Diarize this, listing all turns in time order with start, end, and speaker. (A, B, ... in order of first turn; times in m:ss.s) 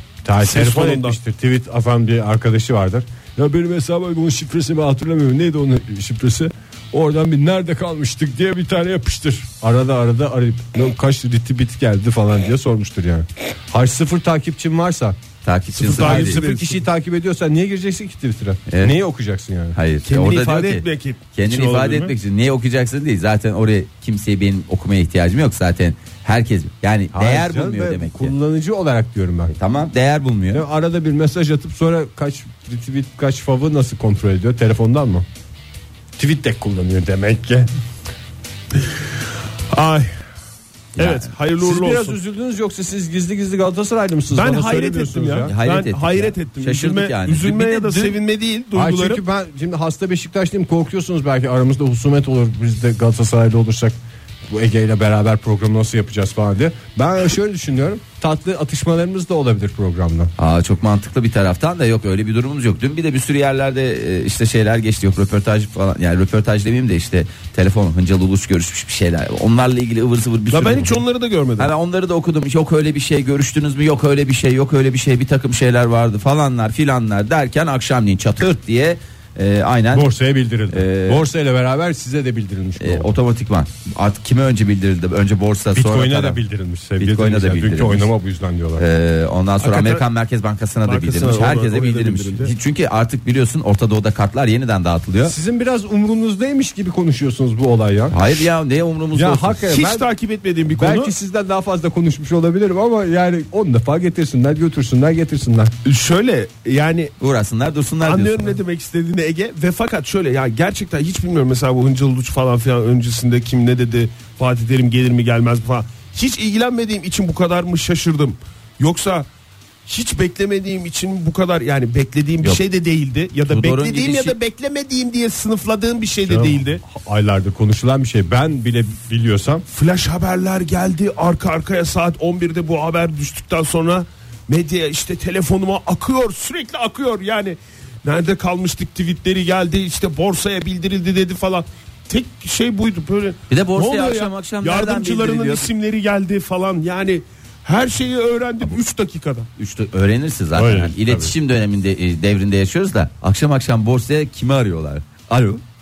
0:00.2-0:15.2 A
0:00.4-0:01.2 B
0:15.4-0:16.4 C
0:15.8-0:16.8 B
0:15.9-0:19.8 A
0:18.7-0:19.0 C
0:19.7-0:28.3 C
0:20.0-0:22.1 B
0:27.1-0:29.6 A
0:29.6-0:30.6 C
0:30.5-0:35.2 A
0:36.2-0:37.7 A
0:39.7-0:40.1 B
0:41.0-0:41.3 C
0:41.0-0:42.2 B
0:41.6-0:45.5 A
0:44.3-0:49.2 B
0:45.5-0:48.2 C
0:48.7-0:54.0 A
0:54.5-1:00.3 A
1:00.4-1:11.0 C
1:10.5-1:11.7 B
1:11.6-1:20.1 C
1:19.9-1:23.1 A
1:20.7-1:21.2 C
1:22.8-1:26.4 C
1:25.7-1:28.8 A
1:27.0-1:28.1 C
1:28.8-1:35.3 C
1:29.6-1:30.0 B
1:30.8-1:32.5 B
1:35.2-1:38.2 A
1:38.1-1:39.6 C
1:39.1-1:40.1 A
1:39.7-1:41.1 B
1:40.7-1:45.7 A
1:45.8-1:47.1 B
1:47.2-1:48.6 C
1:48.0-1:59.3 B
1:59.8-2:06.8 B
2:03.5-2:04.3 C
2:06.2-2:09.6 A
2:09.7-2:29.5 B
2:23.5-2:25.7 C
2:29.6-2:35.6 C
2:30.5-2:31.3 A